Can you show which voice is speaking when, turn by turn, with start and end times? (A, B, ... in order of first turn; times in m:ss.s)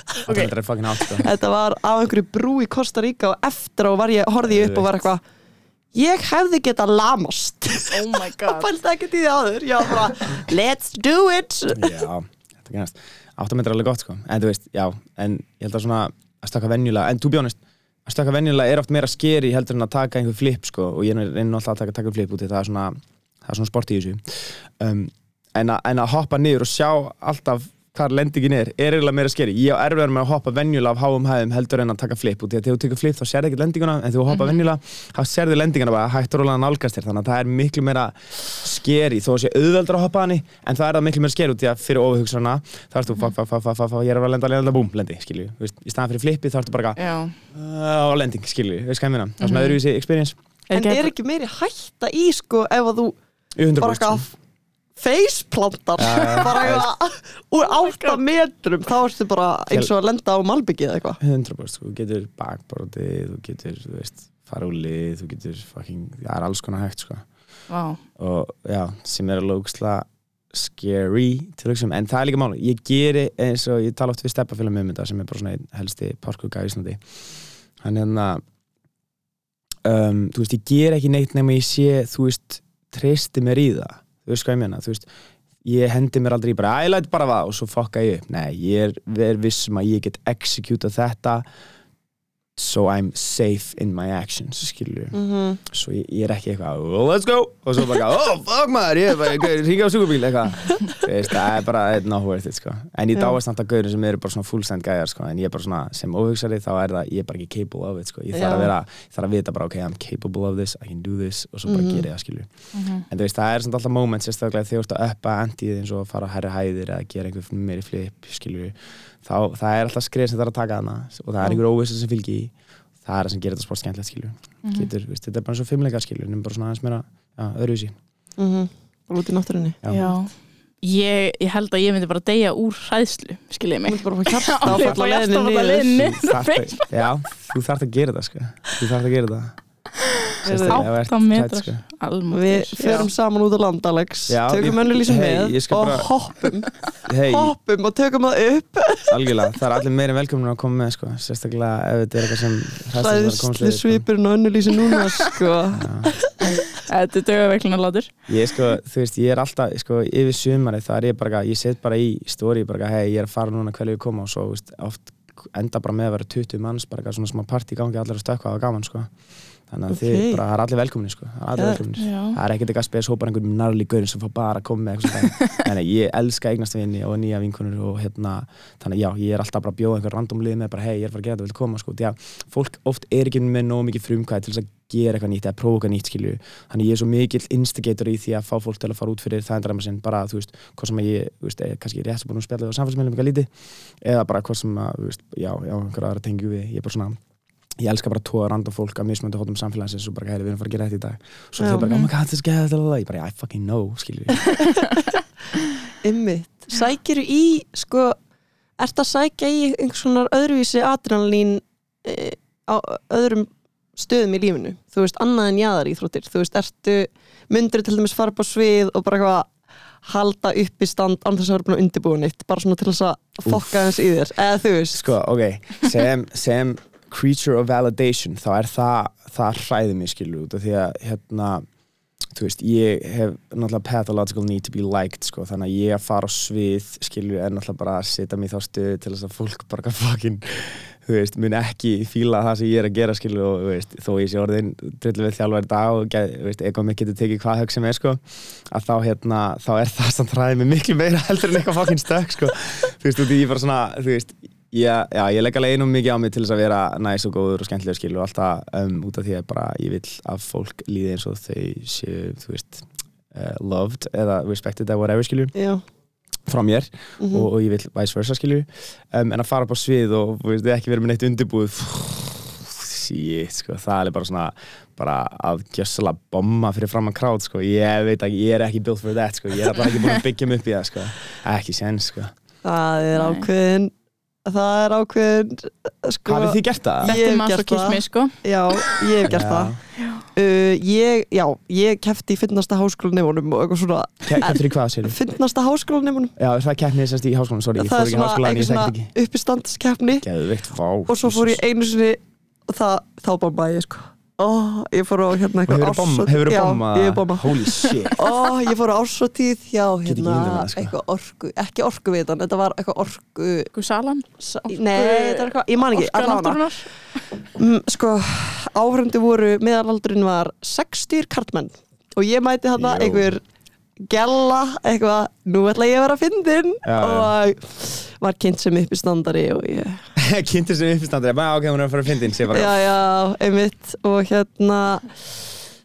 0:00.1-0:00.5 A
0:00.2-0:01.3 B
0:01.2-0:05.2 C
0:04.4-0:05.0 B
0:05.9-0:11.9 C
0:07.9-0:08.7 A
0:11.7-0:47.0 B
0:34.3-0:34.6 A
0:47.0-0:47.4 A
0:47.5-0:50.4 B
0:49.4-0:49.8 A
0:50.7-0:53.2 C
0:50.7-0:51.1 A
0:53.6-0:54.3 B
0:53.8-0:54.3 C
0:55.0-1:01.2 C
0:56.0-0:56.9 B
0:57.7-0:58.2 A
1:01.2-1:07.2 B
1:07.7-1:08.0 A
1:08.2-1:17.0 B
1:17.8-1:18.4 B
1:19.8-1:25.1 B
1:25.6-1:31.5 B
1:32.6-1:52.5 B
1:35.1-1:35.6 C
1:48.3-1:48.7 C
1:51.7-1:52.1 C
1:52.7-1:53.0 A
1:53.1-2:08.0 B
2:04.6-2:04.9 A
2:08.4-2:10.2 C
2:09.9-2:10.3 A
2:10.8-2:17.1 A
2:13.9-2:16.0 C
2:14.6-2:15.1 B
2:15.9-2:19.6 B
2:20.4-2:20.8 C
2:20.4-2:21.8 B
2:20.7-2:23.1 A
2:22.3-2:26.7 C
2:24.3-2:26.1 B
2:27.0-2:27.5 B
2:27.3-2:29.1 C
2:29.1-2:34.1 B
2:33.0-2:36.6 C
2:35.7-2:36.1 B
2:36.7-2:38.1 A
2:38.3-2:49.1 B
2:49.7-3:17.2 B
2:49.9-2:50.4 C
2:51.6-2:51.8 C
2:52.0-2:52.4 A
3:17.8-3:24.6 B
3:21.6-3:21.9 C
3:21.8-3:22.1 A
3:26.0-3:28.2 C
3:28.8-3:39.5 C
3:40.0-3:45.1 C
3:43.4-3:43.9 B
3:44.9-3:51.7 B
3:52.3-4:25.6 B
4:25.6-4:25.8 C
4:26.5-4:42.3 B
4:27.2-4:27.5 C
4:42.6-4:43.9 C
4:43.2-4:43.5 A
4:44.4-4:49.8 C
4:46.3-4:47.2 B
4:47.1-4:49.0 A
4:49.3-4:49.8 B
4:50.0-4:50.2 A
4:50.3-4:56.4 C
4:54.3-4:55.2 B
4:56.4-4:59.1 B
4:57.8-5:00.3 C
5:00.2-5:01.6 B
5:01.1-5:13.7 C
5:05.7-5:08.2 B
5:10.0-5:10.9 B
5:13.8-5:16.9 A
5:14.4-5:16.7 C
5:17.6-5:23.4 C
5:22.8-5:23.3 B
5:24.0-5:30.0 C
5:26.8-5:27.3 B
5:30.2-5:32.8 B
5:32.5-5:35.4 C